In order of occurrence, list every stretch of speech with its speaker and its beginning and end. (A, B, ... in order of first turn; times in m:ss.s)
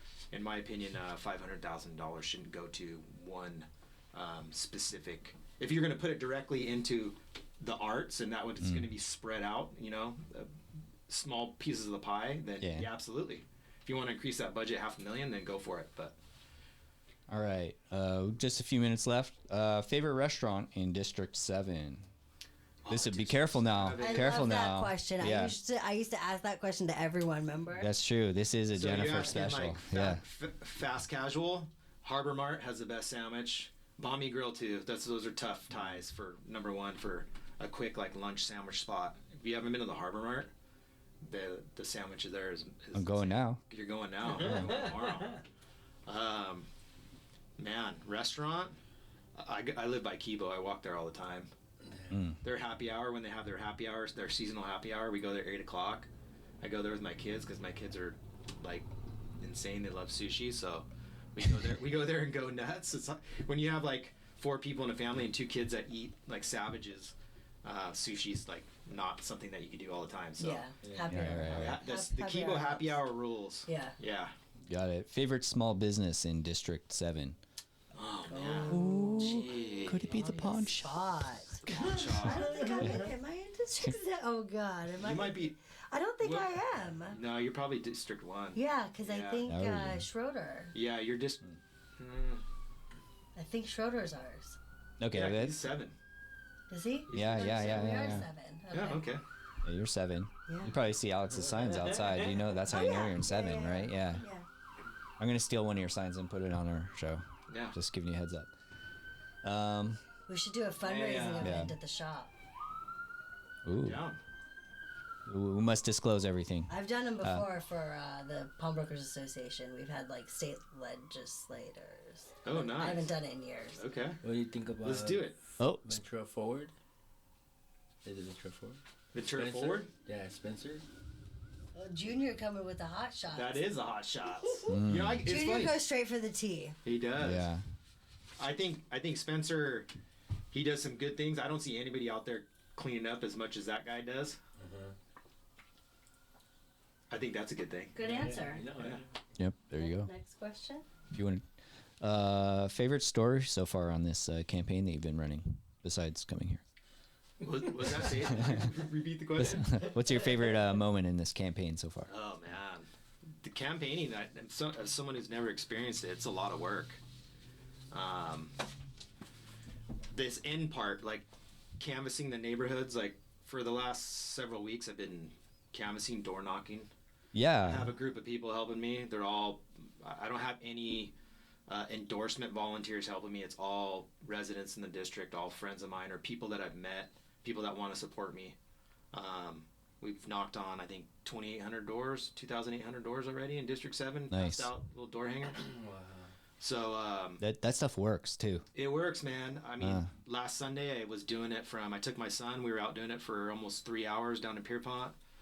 0:00.3-0:10.5 A
0:08.6-0:08.9 B
0:11.1-0:16.2 A
0:12.6-0:12.9 B
0:17.3-0:22.1 B
0:22.8-0:24.5 A
0:22.9-0:25.6 B
0:24.0-0:27.9 C
0:27.8-0:30.2 B
0:28.7-0:40.5 A
0:41.2-0:45.4 A
0:42.9-0:43.6 B
0:44.3-0:44.9 B
0:44.4-0:44.9 D
0:46.1-0:46.7 A
0:47.6-0:48.8 A
0:49.4-0:51.5 A
0:52.1-0:52.4 B
0:52.4-0:56.1 A
0:56.6-0:58.9 A
0:59.4-1:10.7 A
1:10.4-1:13.0 C
1:10.8-1:11.3 D
1:11.1-1:11.8 B
1:11.4-1:14.3 A
1:13.7-1:14.0 C
1:14.7-1:17.4 B
1:17.9-1:20.2 A
1:18.3-1:27.2 C
1:18.7-1:21.1 B
1:21.7-1:22.9 A
1:25.0-1:25.6 A
1:26.2-1:29.5 A
1:28.6-1:30.7 C
1:29.5-1:30.1 B
1:30.7-1:32.4 A
1:33.4-1:34.6 C
1:35.0-1:35.6 B
1:35.1-1:36.0 A
1:36.7-1:39.1 C
1:37.1-1:39.2 A
1:37.1-1:38.3 B
1:39.6-1:44.3 B
1:40.5-1:40.8 C
1:41.7-1:42.5 D
1:42.7-1:44.4 C
1:45.2-1:48.5 B
1:47.5-1:47.8 A
1:49.4-1:50.0 B
1:50.3-1:52.3 C
1:50.8-1:51.6 D
1:51.4-1:51.8 B
1:53.6-1:54.0 B
1:53.8-1:54.2 A
1:55.3-1:57.5 B
1:56.7-2:03.9 C
2:02.4-2:03.2 A
2:03.8-2:04.2 A
2:04.2-2:05.3 D
2:04.8-2:05.4 A
2:05.6-2:05.9 B
2:05.8-2:06.7 D
2:08.0-2:10.8 D
2:09.1-2:09.9 A
2:11.8-2:13.7 C
2:13.3-2:15.8 A
2:14.7-2:15.2 B
2:15.2-2:16.8 C
2:16.8-2:17.5 A
2:17.2-2:17.6 B
2:18.4-2:19.9 A
2:20.5-2:24.4 A
2:24.6-2:24.9 D
2:27.1-2:28.0 A
2:28.0-2:28.7 C
2:28.0-2:29.1 D
2:28.8-2:29.0 A
2:29.4-2:30.1 B
2:29.7-2:30.9 C
2:31.1-2:31.4 B
2:32.0-2:36.6 B
2:37.4-2:40.0 A
2:38.1-2:38.7 B
2:39.4-2:42.1 B
2:42.1-2:47.0 A
2:47.9-2:48.6 A
2:50.1-2:51.3 A
2:51.8-2:56.9 A
2:57.3-2:57.9 B
2:57.6-3:01.1 A
3:01.7-3:08.6 A
3:09.1-3:15.8 A
3:14.3-3:14.7 B
3:15.6-3:16.3 D
3:16.6-3:17.4 A
3:17.4-3:18.7 B
3:18.8-3:25.2 A
3:19.8-3:20.1 B